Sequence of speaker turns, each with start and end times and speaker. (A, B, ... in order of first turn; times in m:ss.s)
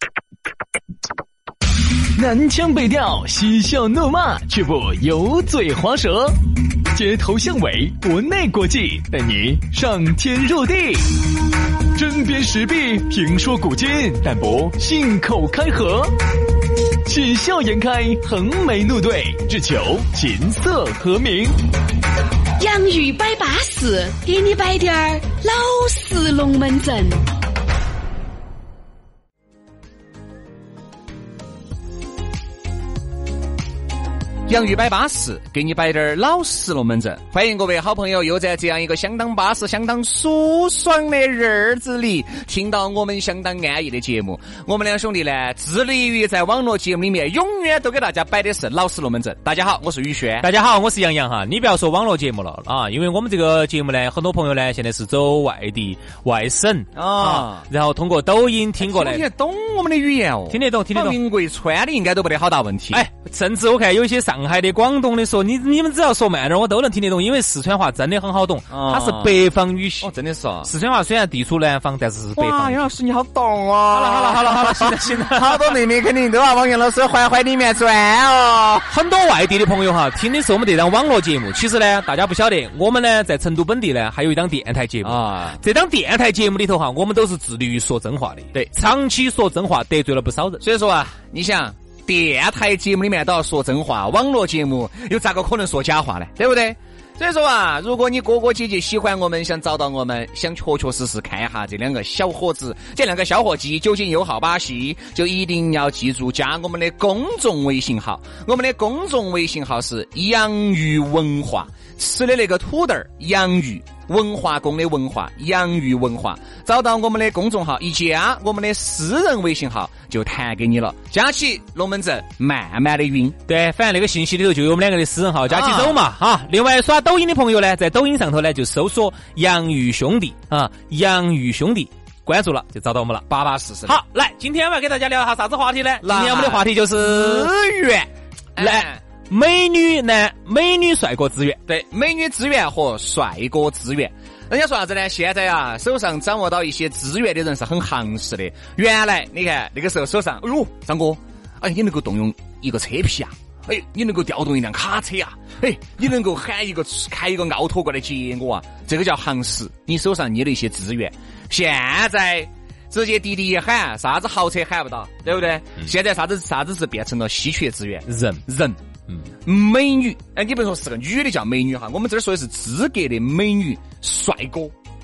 0:02.1-0:06.4 A
0:06.9-0:11.2 A
0:11.9-0:16.2 A
0:17.0-0:21.6 A
0:22.6-0:27.2 B
0:34.4-0:50.5 C
0:50.4-0:59.2 D
0:56.9-0:57.6 C
0:58.8-1:03.0 C
1:00.5-1:01.2 D
1:02.9-1:12.8 D
1:08.7-1:09.4 C
1:10.0-1:10.7 C
1:12.4-1:18.9 C
1:13.9-1:15.8 D
1:18.9-1:30.6 D
1:25.0-1:25.6 C
1:30.6-2:03.4 C
2:03.5-2:13.2 D
2:05.5-2:06.0 C
2:13.3-2:14.0 C
2:13.8-2:17.5 D
2:16.0-2:19.0 C
2:18.6-2:21.6 D
2:21.7-2:48.8 C
2:48.0-2:48.4 D
2:49.4-2:54.7 C